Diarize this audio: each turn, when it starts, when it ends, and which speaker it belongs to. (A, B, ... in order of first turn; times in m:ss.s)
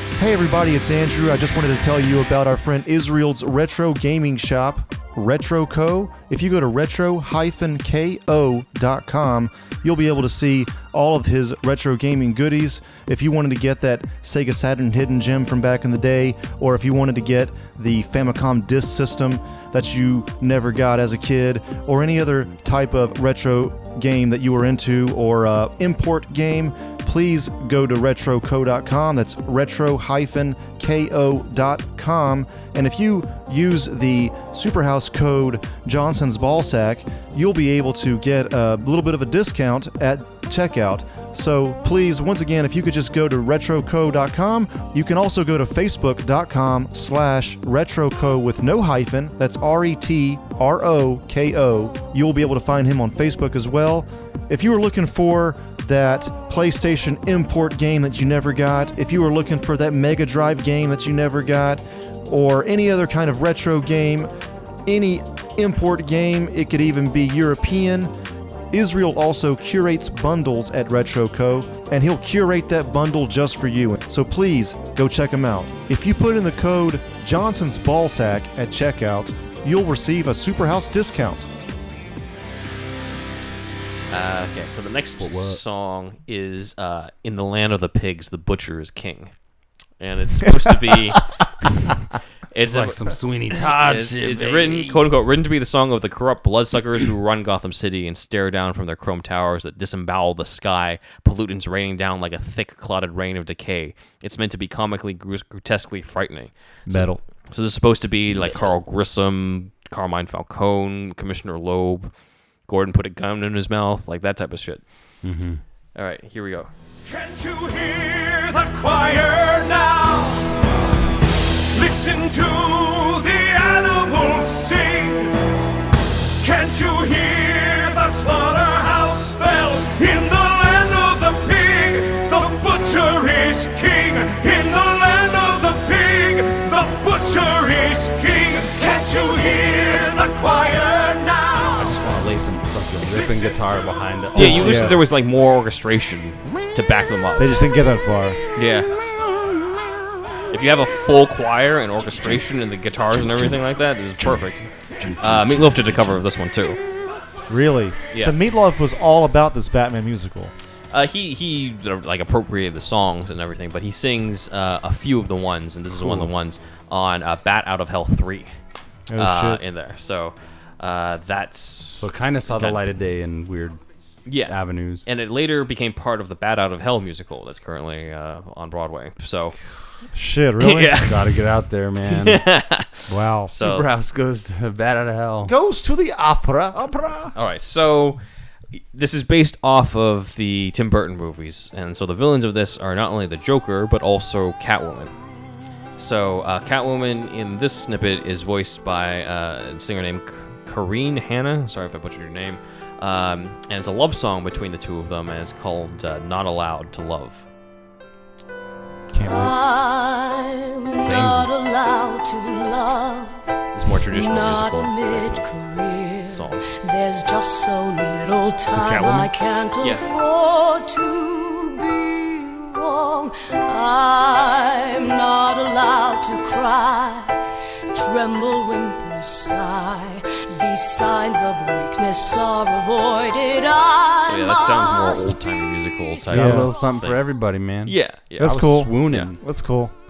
0:00.2-1:04.3 A
1:04.9-1:08.1 A
1:08.7-1:21.5 A
1:24.1-1:29.3 B
1:25.2-1:25.6 C
1:30.0-1:31.3 B
1:32.5-1:52.1 B
1:32.6-1:35.0 C
1:46.9-1:47.2 A
1:52.7-1:54.8 B
1:55.2-1:55.6 C
1:56.0-1:56.7 B
1:57.0-2:00.7 D
2:01.4-2:05.5 D
2:06.4-2:22.0 D
2:21.8-2:25.0 C
2:24.4-2:27.6 B
2:24.4-2:25.0 A
2:27.4-2:28.4 A
2:28.6-2:29.0 B
2:30.5-2:36.8 B
2:35.0-2:35.7 A
2:37.5-2:40.5 A
2:40.9-2:48.5 B
2:46.0-2:46.3 A
2:49.1-2:49.6 A
2:49.2-2:52.8 B
2:52.0-2:53.8 C
2:54.3-2:59.6 B
2:54.5-2:55.0 C
3:00.1-3:01.0 A
3:00.6-3:01.4 B
3:01.0-3:02.4 C
3:02.1-3:03.9 B
3:03.1-3:03.5 A
3:03.1-3:05.5 C
3:05.4-3:06.8 A
3:06.7-3:07.4 C
3:07.4-3:08.2 B
3:08.8-3:15.1 B
3:16.0-3:27.5 B
3:29.1-3:29.6 A
3:29.2-3:33.4 E
3:31.0-3:31.5 C
3:33.8-3:35.5 B
3:34.0-3:47.4 E
3:36.3-3:36.7 B
3:38.8-3:39.3 B
3:47.9-3:57.0 E
3:54.2-3:57.3 B
3:56.3-3:59.4 C
3:56.3-3:56.7 A
3:57.8-3:59.3 B
3:58.4-3:59.9 A